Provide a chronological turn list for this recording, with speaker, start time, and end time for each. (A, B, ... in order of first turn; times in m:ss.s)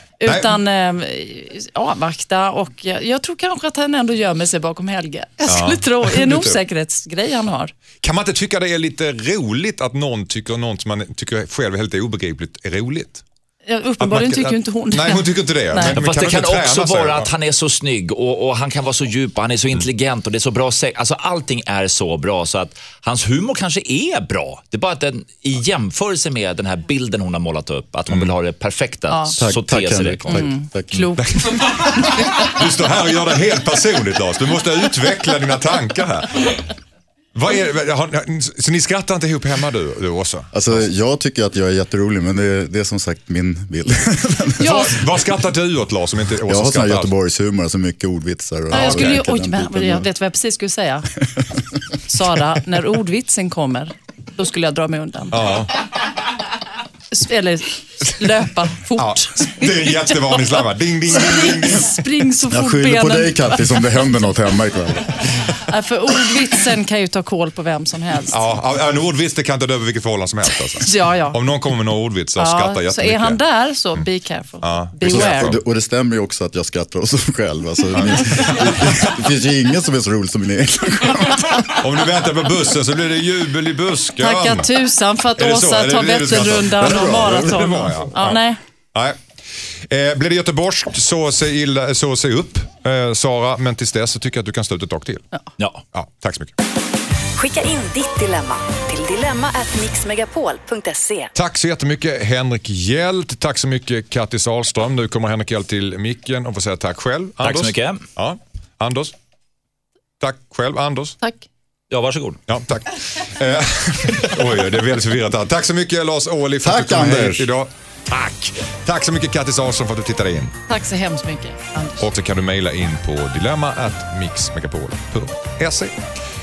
0:00.2-0:07.7 A
0:00.3-0:00.5 B
0:05.5-0:06.6 B
0:08.0-0:13.2 B
0:13.7-0:16.0 A
0:14.0-0:17.3 B
0:15.8-0:30.5 C
0:29.1-0:29.5 A
0:29.4-0:31.1 D
0:30.3-0:32.2 A
0:31.2-0:36.6 B
0:37.3-0:40.5 B
0:40.5-0:45.2 D
0:44.6-0:47.1 B
0:44.6-0:44.9 A
0:46.5-0:50.1 D
0:48.7-0:51.1 A
0:48.7-0:49.2 B
0:52.1-0:55.6 A
0:55.3-0:55.7 B
0:57.1-1:00.0 A
0:59.0-1:02.0 B
1:01.1-1:04.2 A
1:02.5-1:05.3 D
1:05.7-1:08.4 A
1:08.3-1:13.4 B
1:10.8-1:11.4 A
1:12.4-1:15.6 A
1:14.6-1:15.6 B
1:15.0-1:21.8 D
1:18.0-1:19.1 B
1:21.7-1:24.7 B
1:24.2-1:28.6 A
1:25.4-1:28.4 B
1:28.9-1:29.2 B
1:29.9-1:35.3 B
1:35.9-1:36.6 B
1:37.4-1:41.3 E
1:41.4-1:49.1 B
1:47.4-1:48.0 C
1:50.2-1:51.2 B
1:51.2-1:51.5 A
1:51.9-1:52.4 C
1:52.5-2:00.5 B
1:56.6-1:57.5 D
2:00.7-2:02.0 A
2:02.0-2:06.0 B